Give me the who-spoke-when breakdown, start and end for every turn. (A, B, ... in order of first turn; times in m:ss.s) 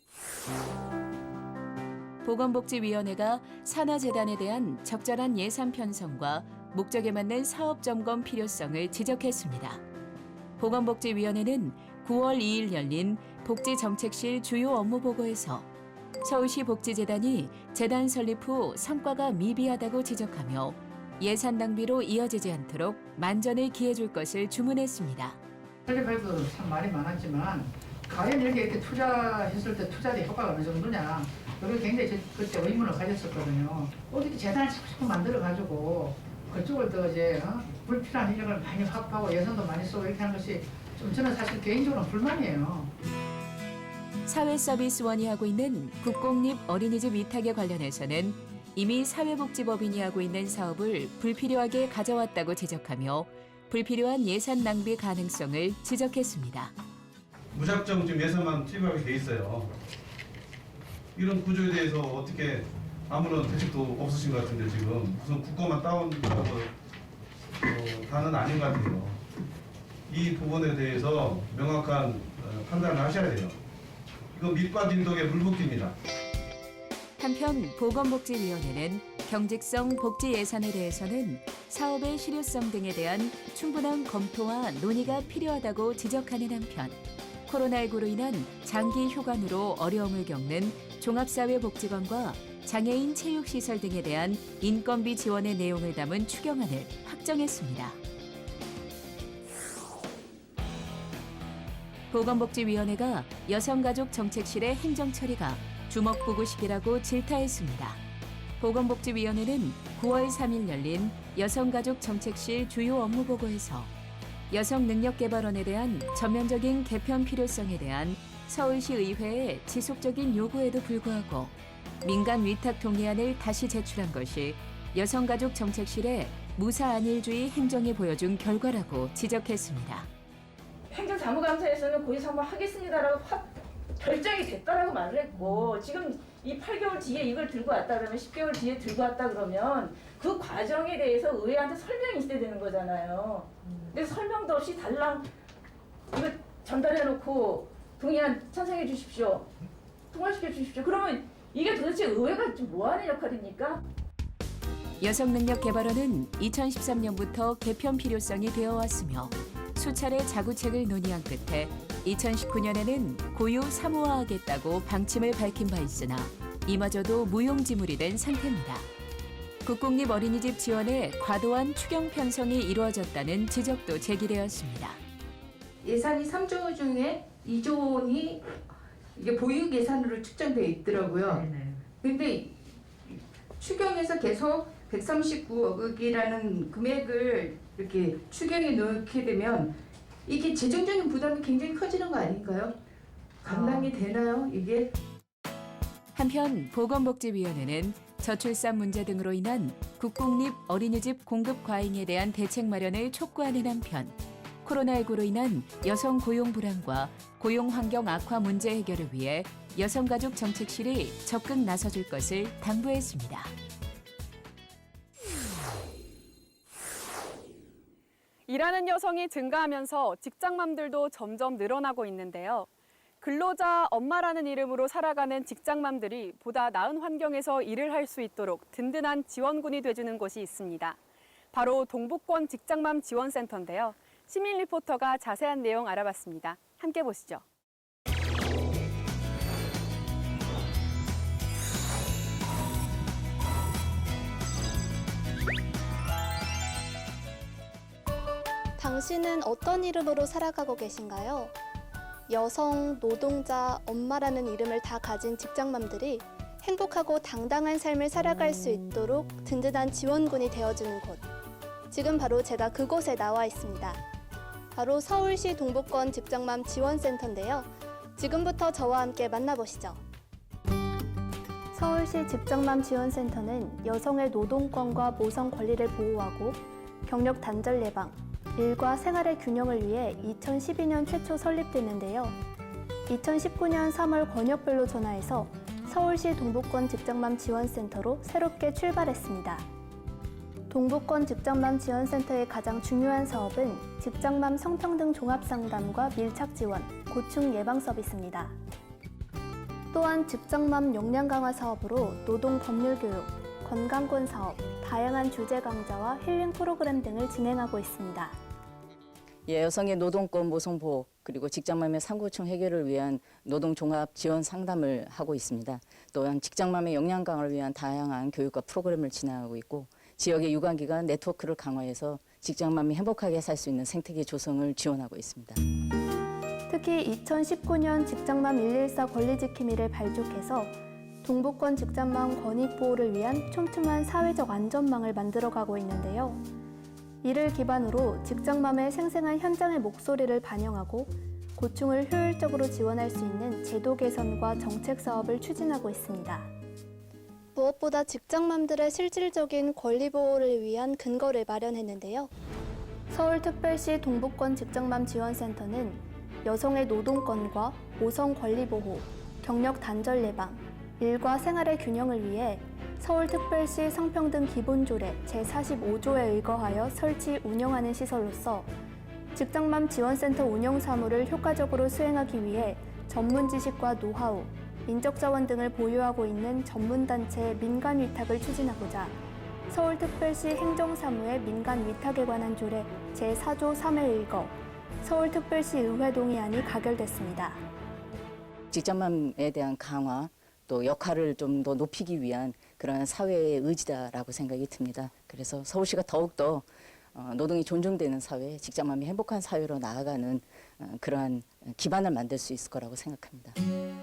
0:02.2-0:09.8 A
0:10.6-0:15.7 A
0:16.2-0:25.4 A
0:25.9-0:42.9 B
0:44.3-0:56.7 A
0:57.5-0:59.7 C
1:01.2-1:06.7 C
1:07.6-1:09.2 C
1:10.1-1:13.6 C
1:14.3-1:16.0 C
1:17.2-1:38.0 A
1:42.1-1:48.0 A
1:48.6-1:53.9 A
1:54.5-2:10.1 A
2:10.9-2:25.3 D
2:15.4-2:15.7 E
2:26.1-2:29.5 D
2:30.1-2:33.8 D
2:35.0-2:48.9 A
2:49.6-2:55.0 A
2:55.8-3:02.5 E
3:03.0-3:09.8 E
3:10.3-3:12.8 E
3:13.4-3:14.9 E
3:16.2-3:33.5 A
3:38.5-3:42.7 F
3:43.2-3:51.0 F
3:51.5-3:57.4 F
4:08.8-4:11.5 G
4:12.3-4:21.3 G
4:21.9-4:24.0 G
4:24.8-4:30.0 G
4:31.7-4:42.4 G
4:43.1-4:49.7 G
4:50.7-4:58.6 G
4:59.9-5:08.4 G
5:09.5-5:25.6 H
5:26.7-5:36.4 G
5:37.2-5:46.5 G
5:47.6-5:52.3 G
5:53.1-6:08.7 G
6:09.4-6:19.2 G
6:19.7-6:27.6 G
6:28.7-6:43.6 H